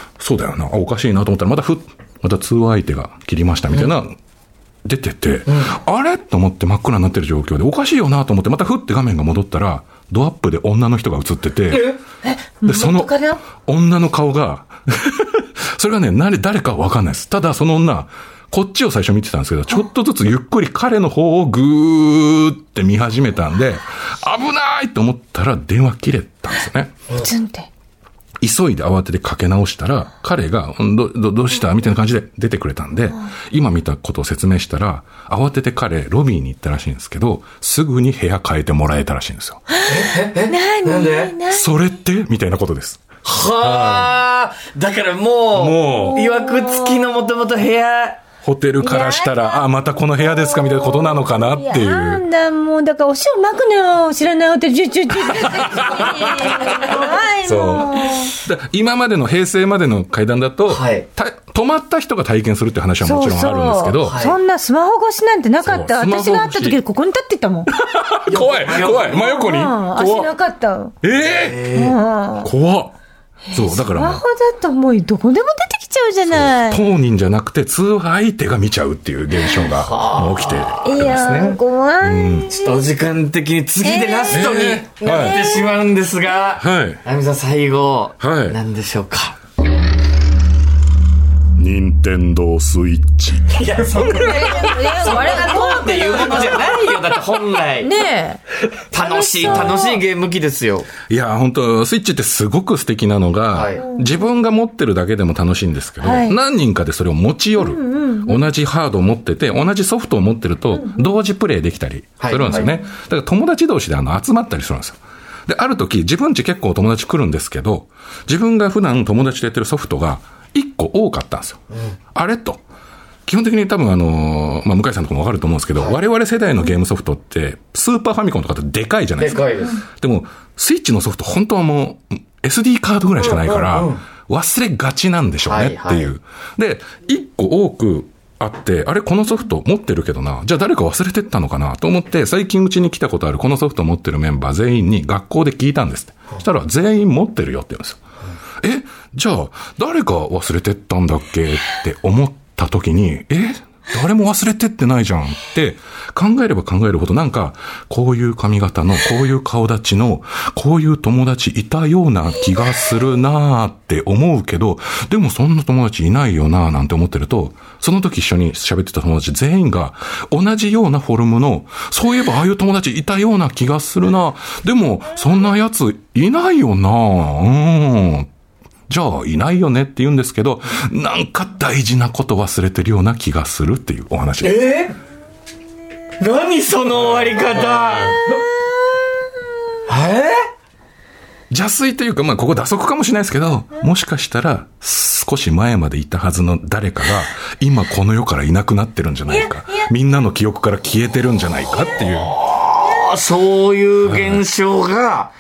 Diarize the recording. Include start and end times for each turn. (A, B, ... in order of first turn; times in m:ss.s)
0:00.2-0:04.2 A
0:04.8-0:12.0 A
0:05.5-0:05.7 B
0:11.7-0:12.0 B
0:12.2-0:13.4 C
0:12.6-0:26.9 A
0:27.2-0:27.7 C
0:28.4-0:39.6 A
0:39.7-0:41.6 C
0:39.9-0:41.4 B
0:41.5-0:43.0 A
0:43.2-0:48.2 B
0:43.6-0:44.1 A
0:45.5-0:46.2 A
0:45.9-0:47.0 C
0:48.4-0:52.2 A
0:48.8-0:49.6 C
0:50.2-0:58.3 C
0:55.3-1:04.2 A
1:00.7-1:01.1 B
1:03.0-1:07.7 C
1:04.0-1:04.4 B
1:05.6-1:06.8 A
1:07.7-1:10.3 A
1:08.3-1:09.3 B
1:09.1-1:10.9 C
1:11.0-1:11.8 A
1:11.2-1:12.0 B
1:11.7-1:12.5 C
1:12.4-1:13.0 A
1:13.5-1:16.8 C
1:13.5-1:14.2 A
1:16.3-1:22.5 A
1:19.7-1:20.8 B
1:20.8-1:22.8 C
1:22.5-1:29.4 B
1:23.8-1:25.7 C
1:24.3-1:25.4 A
1:26.6-1:27.0 A
1:28.2-1:28.6 A
1:31.6-1:33.4 A
1:33.5-1:37.9 B
1:34.1-1:37.0 C
1:37.8-1:38.4 C
1:38.9-1:40.9 B
1:38.9-1:40.0 C
1:39.4-1:39.8 A
1:41.1-2:01.6 A
1:43.5-1:43.8 B
1:43.8-1:44.1 C
1:46.0-1:46.4 C
1:47.6-1:48.4 C
1:50.8-1:51.1 C
1:52.2-1:52.7 B
1:52.5-1:52.8 C
2:01.7-2:02.0 B
2:02.2-2:02.6 A
2:03.3-2:28.0 A
2:09.2-2:09.8 B
2:13.2-2:14.0 B
2:15.4-2:16.1 B
2:28.6-2:58.3 A
2:58.9-3:04.6 A
3:04.4-3:05.0 B
3:06.2-3:08.3 B
3:07.2-3:08.1 A
3:09.9-3:10.4 B
3:11.5-3:22.4 A
3:22.2-3:25.3 B
3:24.0-3:24.4 A